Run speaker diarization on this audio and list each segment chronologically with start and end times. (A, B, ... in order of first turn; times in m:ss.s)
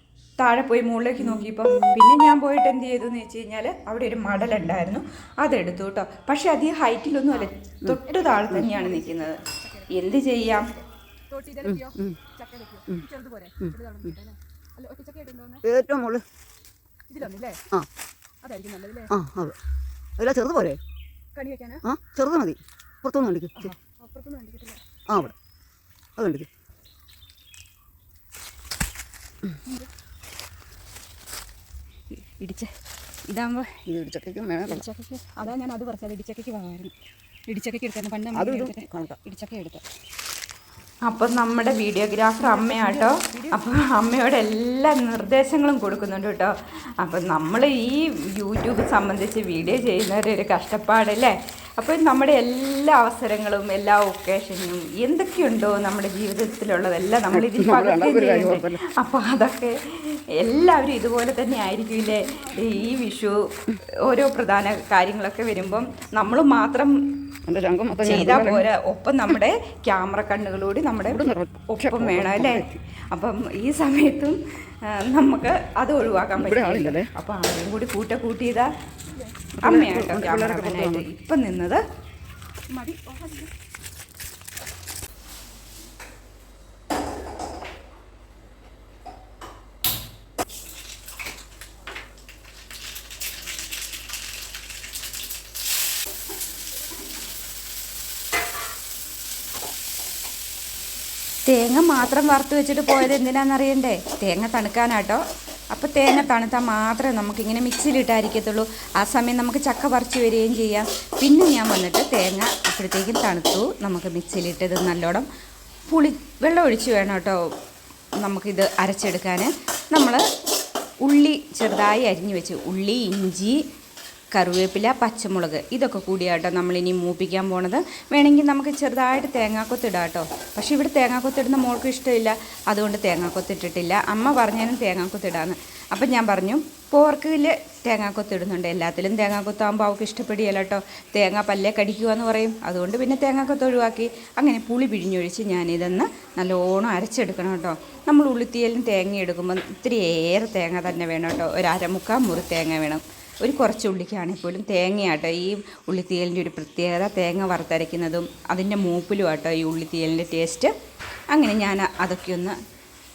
0:00.4-0:10.7 A
0:08.1-0:15.6 B
0:11.6-0:12.2 C
0:15.6-0:16.2 C
0:17.1-0:17.6 B
0:18.4-0:19.1 B
0:19.1-0:19.6 C
0:20.2-0:20.8 C
0:21.3-0:21.8 B
0:21.8-0:23.7 C
0:23.6-0:24.8 B
0:25.1-0:25.3 C
0:26.2-0:26.5 C
0:32.1-0:32.7 B
0:33.3-0:33.7 B
0:33.9-0:34.8 C
0:34.7-0:36.9 B
0:37.5-0:39.8 B
0:38.3-0:39.2 C
0:41.0-1:07.3 A
0:42.4-0:43.6 B
0:57.3-0:58.8 C
1:02.2-1:03.0 B
1:07.4-1:08.7 C
1:08.0-1:18.7 A
1:11.0-1:12.8 C
1:16.4-1:17.1 C
1:19.6-1:21.1 C
1:19.6-1:21.8 A
1:22.7-1:23.5 B
1:41.5-1:55.3 A
1:55.9-1:57.4 A
1:58.2-2:00.2 A
2:01.0-2:03.6 A
2:04.3-2:40.7 A
2:41.3-2:42.6 A